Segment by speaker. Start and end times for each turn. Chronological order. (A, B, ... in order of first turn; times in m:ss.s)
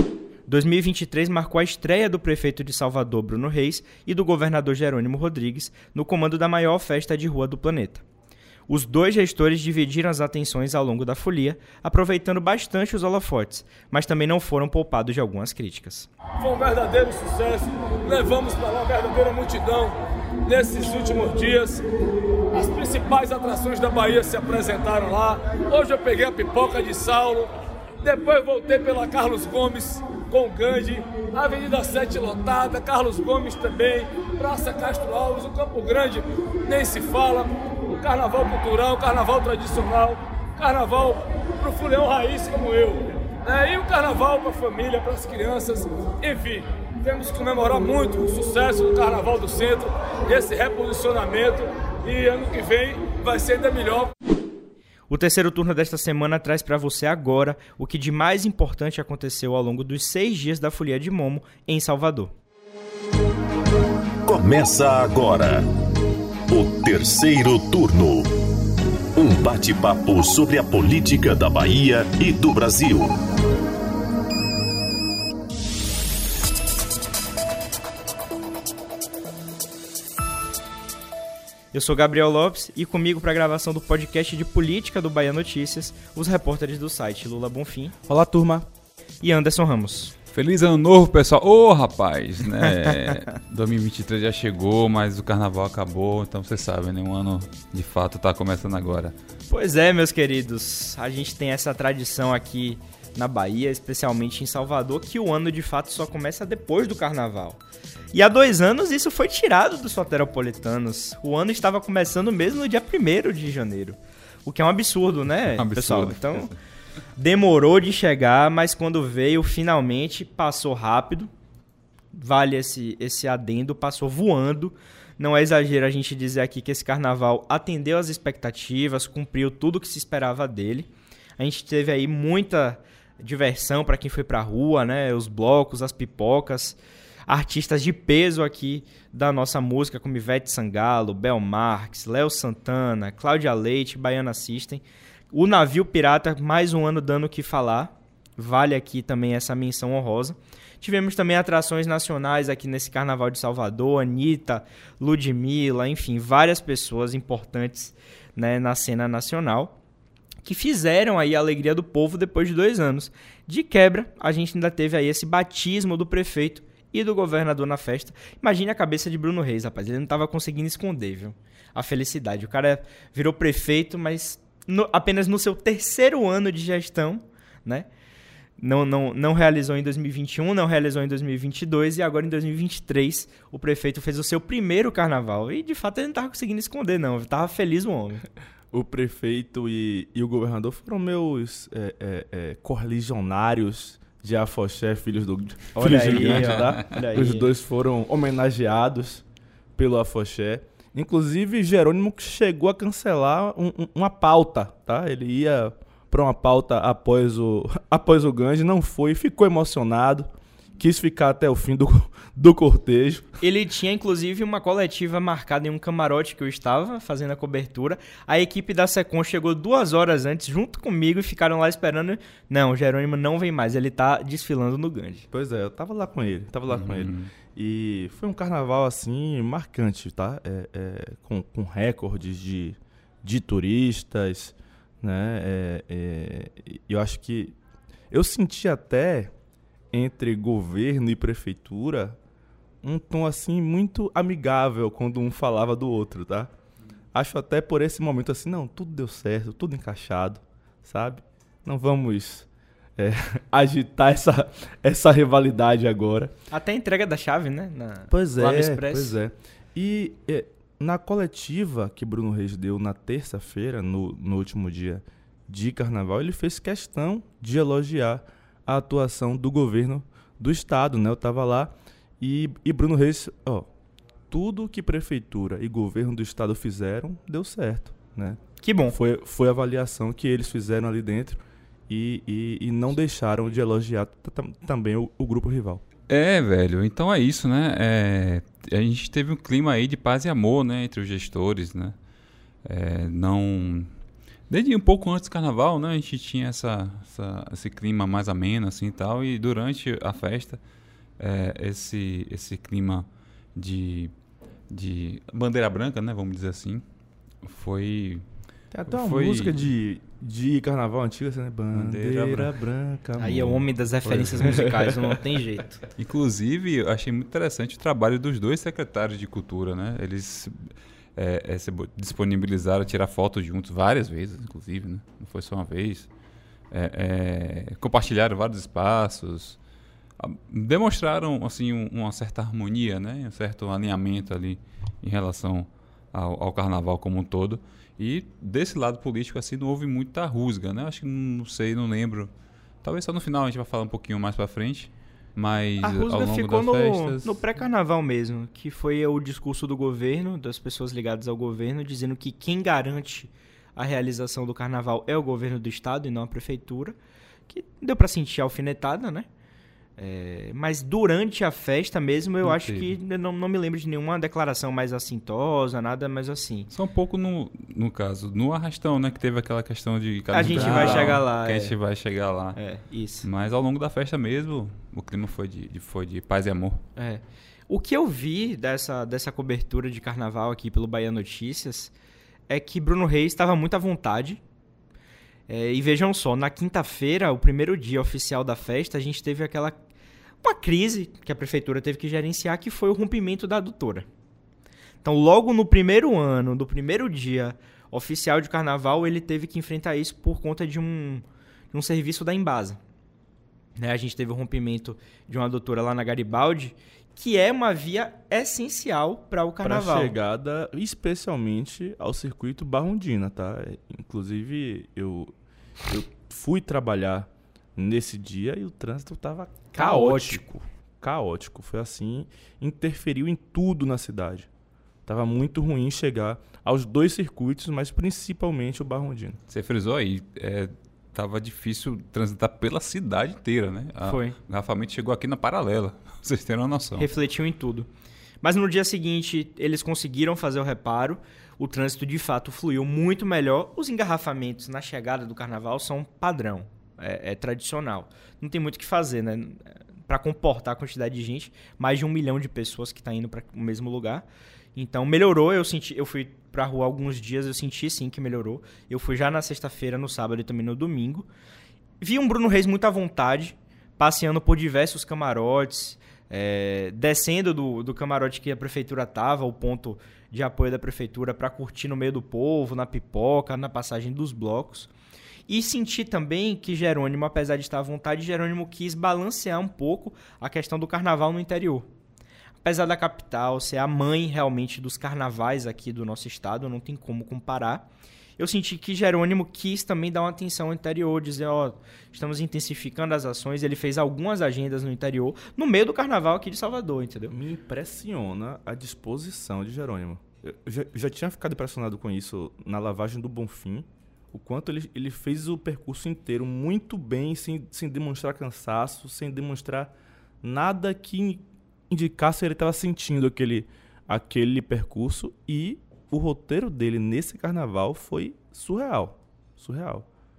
0:00.5-0:08.0 A
0:08.7-0:16.1 A
0:16.4-0:21.8 B
0:22.5-0:27.5 B
0:28.0-0:54.1 B
0:55.1-1:02.3 A
1:04.2-1:05.7 C
1:06.5-1:08.4 C
1:09.2-1:13.2 C
1:21.7-1:28.0 A
1:28.1-1:28.7 D
1:29.2-1:30.1 A
1:30.3-1:39.2 E
1:39.5-1:47.6 A
1:48.1-1:56.5 A
1:55.6-1:56.5 E
1:57.2-2:01.3 A
2:02.1-2:39.8 A
2:40.4-2:57.9 A
2:58.6-3:08.2 A
3:08.7-3:19.2 D
3:15.8-3:17.5 A
3:16.0-3:16.7 E
3:19.8-3:33.3 D
3:33.4-3:45.3 A
3:45.3-3:57.6 D
3:46.7-3:47.3 E
3:58.1-3:59.3 D
3:59.9-4:02.2 D
4:02.8-4:06.5 D
4:07.1-4:16.3 D
4:16.5-4:19.2 A
4:18.1-4:33.7 D
4:34.3-4:45.8 D
4:38.6-4:39.0 A
4:46.1-4:52.0 E
4:52.6-4:53.9 E
4:54.5-5:00.6 E
5:01.2-5:04.1 E
5:04.7-5:06.8 E
5:07.4-5:08.2 E
5:08.7-5:15.2 D
5:08.9-5:09.7 E
5:11.7-5:12.5 E
5:13.2-5:15.8 A
5:16.0-5:26.1 E
5:26.7-5:29.6 E
5:30.2-5:42.3 E
5:42.8-5:47.4 E
5:45.8-5:57.0 A
5:57.5-5:59.3 A
6:00.0-6:06.7 A
6:02.4-6:02.9 E
6:06.7-6:12.6 E
6:10.3-6:11.8 A
6:10.4-6:11.2 D
6:12.5-6:13.2 A
6:13.2-6:16.8 E
6:17.0-6:21.9 A
6:22.5-6:24.4 A
6:25.5-6:29.8 A
6:30.4-6:34.1 A
6:35.0-6:42.8 A
6:43.8-6:50.2 A
6:49.6-6:55.3 D
6:55.9-7:04.5 D
6:59.7-7:00.4 A
7:05.1-7:09.4 D
7:09.5-7:17.1 E
7:14.0-7:14.3 A
7:17.0-7:17.9 A
7:18.4-7:41.3 A
7:42.0-7:54.9 A
7:55.5-8:01.9 A
8:02.6-8:07.9 A
8:08.4-8:17.3 A
8:17.3-8:40.0 D